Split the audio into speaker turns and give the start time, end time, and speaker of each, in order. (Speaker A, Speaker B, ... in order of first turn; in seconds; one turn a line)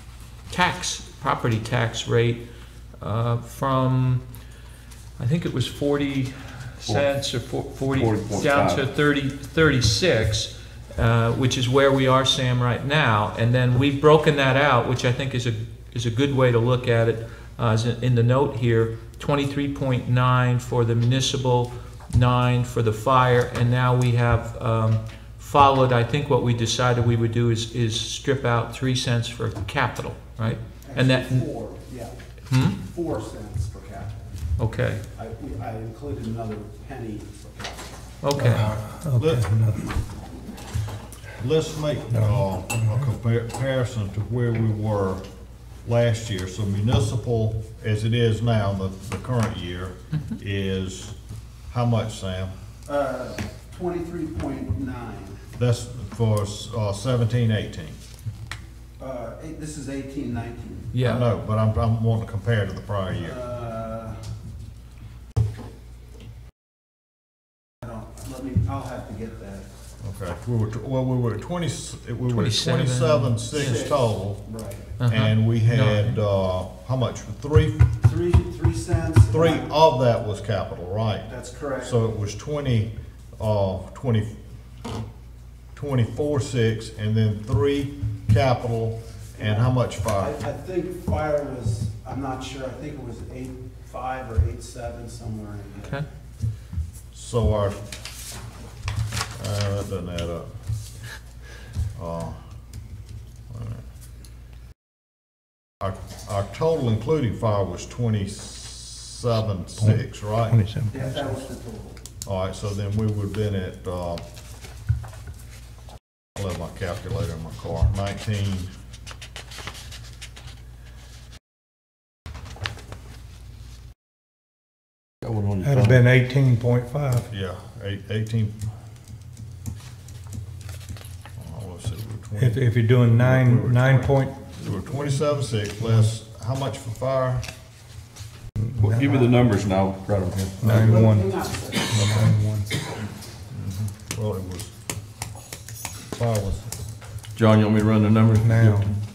Speaker A: 0.5-2.4
Speaker A: 3.0-4.2
Speaker A: 5.2-31.4
Speaker B: 8.0-8.8
Speaker C: 30.8-32.1
Speaker A: 32.5-32.8
Speaker C: 32.7-34.2
Speaker A: 34.6-35.0
Speaker C: 35.1-38.0
Speaker A: 38.2-38.7
Speaker D: 38.4-39.8
Speaker E: 39.1-39.5
Speaker E: 41.4-45.2
Speaker D: 42.1-42.4
Speaker E: 45.8-51.1
Speaker E: 51.7-52.5
Speaker C: 52.9-55.4
Speaker E: 55.5-58.0
Speaker C: 59.0-60.9
Speaker A: 60.9-61.3
Speaker E: 61.0-63.4
Speaker C: 63.2-64.2
Speaker C: 67.8-69.7
Speaker E: 70.0-74.4
Speaker A: 72.3-73.9
Speaker C: 73.5-74.9
Speaker A: 75.0-76.2
Speaker E: 75.1-77.9
Speaker C: 78.0-79.7
Speaker E: 79.3-81.3
Speaker C: 81.3-82.0
Speaker E: 81.8-84.3
Speaker E: 85.7-90.4
Speaker C: 89.4-96.0
Speaker E: 97.1-97.8
Speaker E: 99.3-100.5
Speaker E: 102.0-102.4
Speaker E: 103.5-103.8
Speaker E: 105.8-110.6
Speaker D: 109.8-111.1
Speaker C: 110.9-112.0
Speaker E: 112.2-114.2
Speaker E: 116.3-118.7
Speaker B: 125.3-126.0
Speaker D: 125.6-127.3
Speaker E: 127.3-128.5
Speaker E: 131.4-137.4
Speaker D: 132.4-134.3
Speaker D: 138.6-139.1
Speaker B: 138.8-140.6
Speaker D: 140.6-142.7
Speaker C: 140.6-142.3
Speaker E: 143.5-144.7
Speaker E: 146.2-146.7
Speaker B: 147.3-148.9
Speaker D: 148.4-148.9